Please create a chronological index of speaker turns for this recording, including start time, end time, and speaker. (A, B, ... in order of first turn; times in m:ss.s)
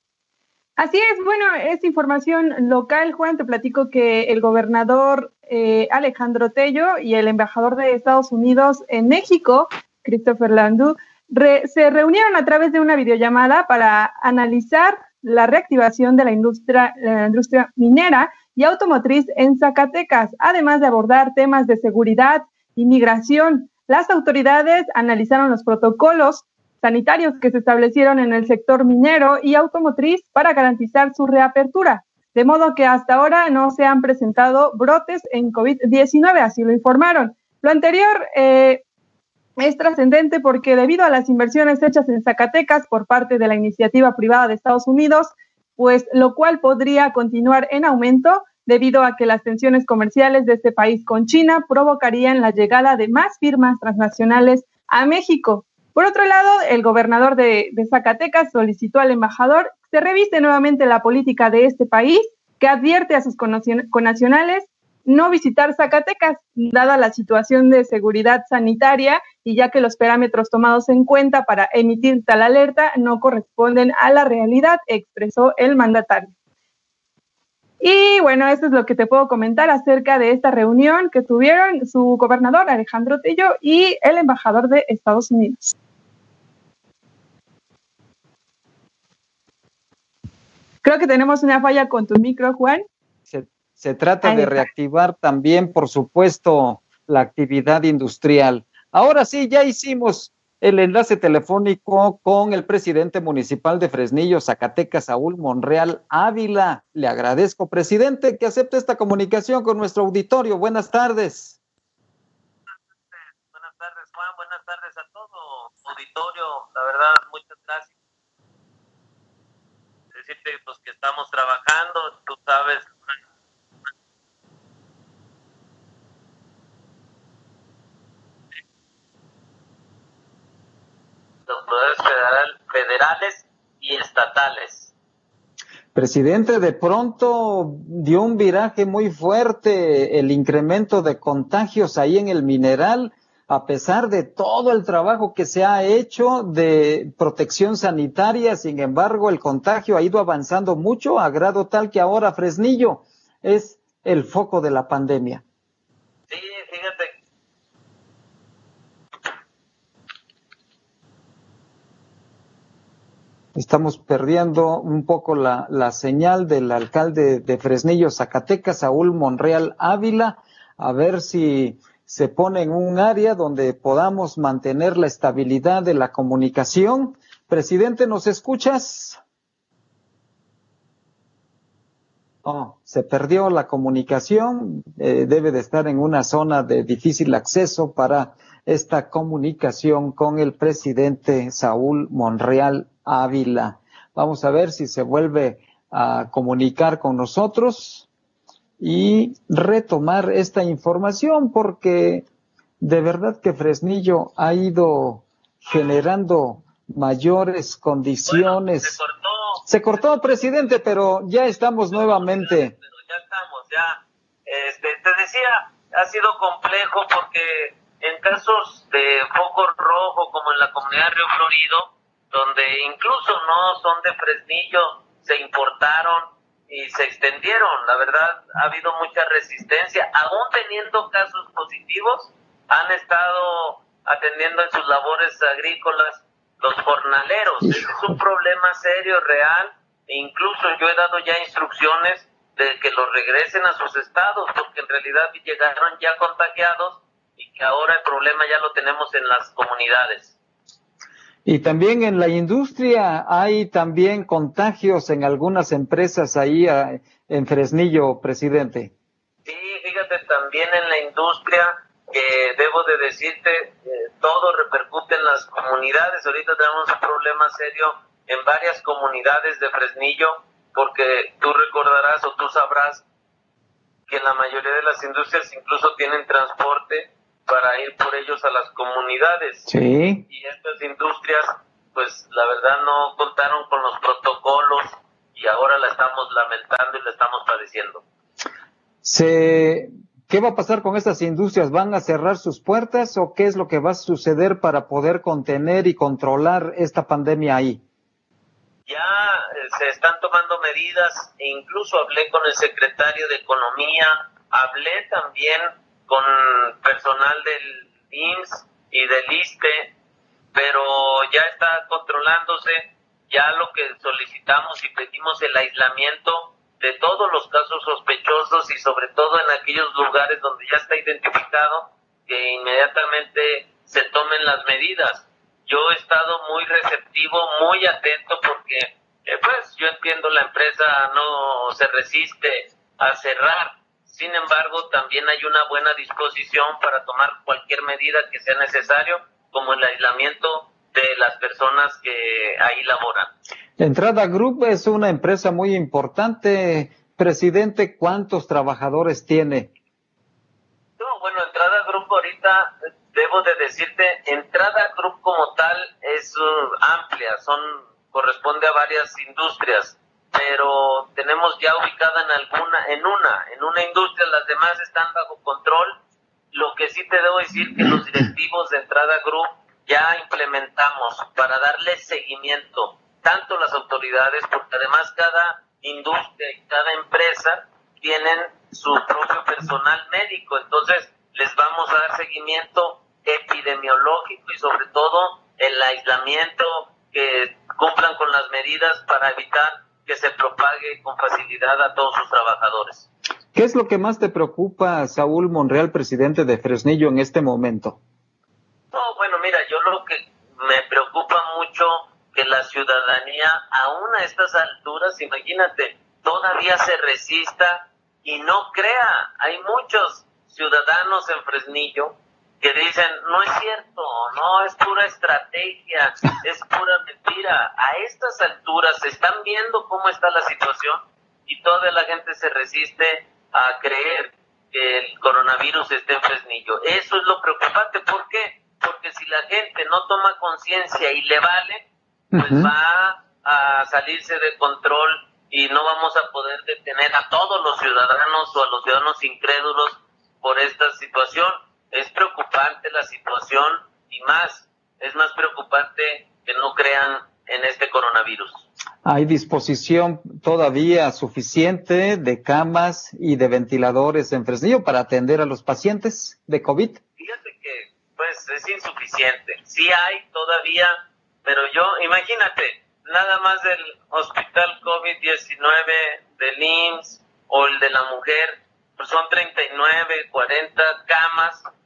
0:00.8-0:38.8 A
0:39.6-1:16.3 A
1:17.8-1:25.7 A
1:30.8-1:32.8 A
1:33.3-1:51.6 B
1:34.2-1:34.7 A
1:52.7-1:57.9 C
2:00.1-2:03.2 C
2:11.5-2:14.9 C
2:16.0-2:35.4 B
2:36.3-2:37.2 C
2:43.6-2:59.2 B
3:02.4-3:18.1 B
3:18.8-3:22.3 B
3:22.8-3:29.0 B
3:28.2-3:29.7 C
3:29.7-3:32.7 B
3:31.9-4:10.4 C
4:11.5-4:18.9 B
4:19.4-4:33.0 C
4:34.1-4:39.7 C
4:39.7-4:40.2 B
4:40.3-4:48.0 C
4:49.0-4:57.8 B
4:58.9-5:09.9 C
5:10.5-5:43.4 C
5:43.8-5:49.7 B
5:51.0-6:06.0 C
6:06.5-6:33.1 C
6:33.5-6:38.0 B
6:38.9-7:28.6 C
7:12.3-7:12.7 B
7:29.0-7:37.0 B
7:37.2-7:51.7 C